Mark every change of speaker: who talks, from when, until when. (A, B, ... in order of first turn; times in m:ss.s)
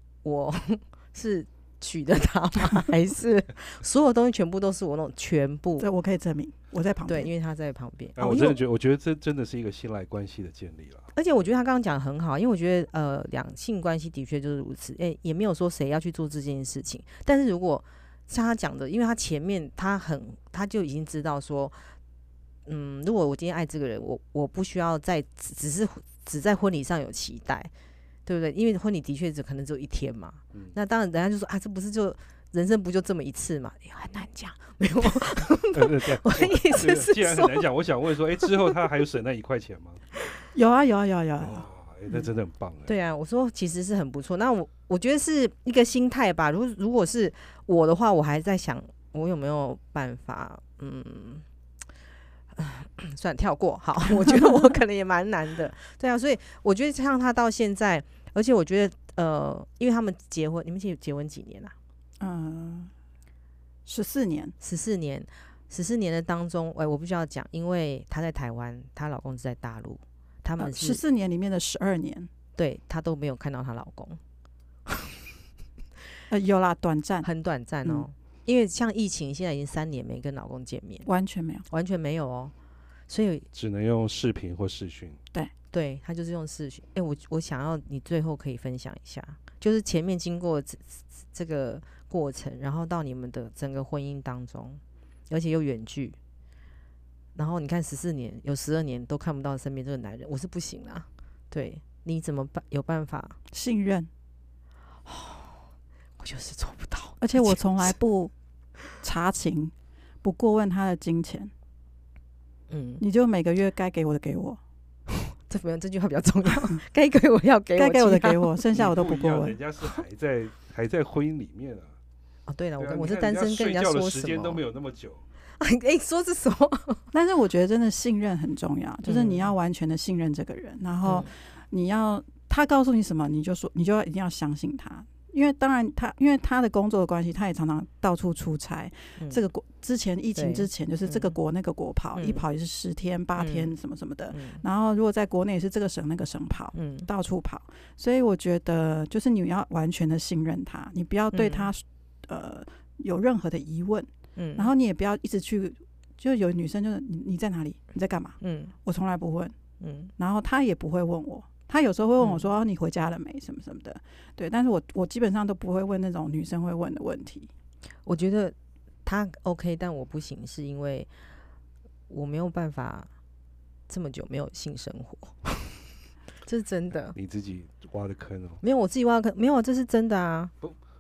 0:00.2-0:05.9 A
0:05.8-0:07.3 B
0:07.1-0:08.6 A
0:08.2-0:11.1 C
0:11.1-0:21.9 A
0:22.7-0:27.7 A
0:28.2-0:37.6 A
0:35.7-0:40.0 C
0:38.4-0:38.7 A
0:40.5-0:41.6 B
0:41.4-0:42.9 C
0:42.9-0:51.4 A
0:52.6-1:01.7 A
0:54.2-0:54.8 B
1:02.2-1:02.9 B
1:03.9-1:04.6 B
1:04.6-1:11.0 A
1:10.6-1:12.3 B
1:12.6-1:14.2 A
1:16.3-1:17.3 B
1:17.2-1:21.1 A
1:21.1-1:21.7 B
1:21.7-1:22.5 A
1:23.1-1:23.5 A
1:23.5-1:25.2 C
1:25.7-1:36.2 A
1:37.4-1:43.4 A
1:43.5-1:44.1 B
1:45.1-1:45.6 A
1:46.2-1:47.9 A
1:47.2-1:48.3 B
1:49.0-1:51.5 B
1:52.7-1:53.0 A
1:53.0-1:54.6 B
1:55.1-1:58.6 A
1:57.8-1:59.6 B
1:58.7-2:01.9 C
2:02.5-2:04.6 A
2:02.8-2:05.2 C
2:05.6-2:07.0 A
2:07.1-2:39.6 B
2:09.0-2:09.5 A
2:11.0-2:11.3 A
2:20.4-2:21.4 A
2:22.1-2:22.4 A
2:23.4-2:23.7 A
2:24.3-2:24.6 A
2:26.7-2:27.1 A
2:31.3-2:31.7 A
2:34.4-2:34.7 A
2:38.4-2:38.7 A
2:39.8-2:40.1 A
2:40.2-2:47.5 B
2:42.2-2:42.5 A
2:48.1-2:51.1 A
2:52.1-2:53.1 A
2:53.9-2:55.8 A
2:56.4-2:57.2 A
2:57.1-2:58.6 C
2:58.6-3:00.5 A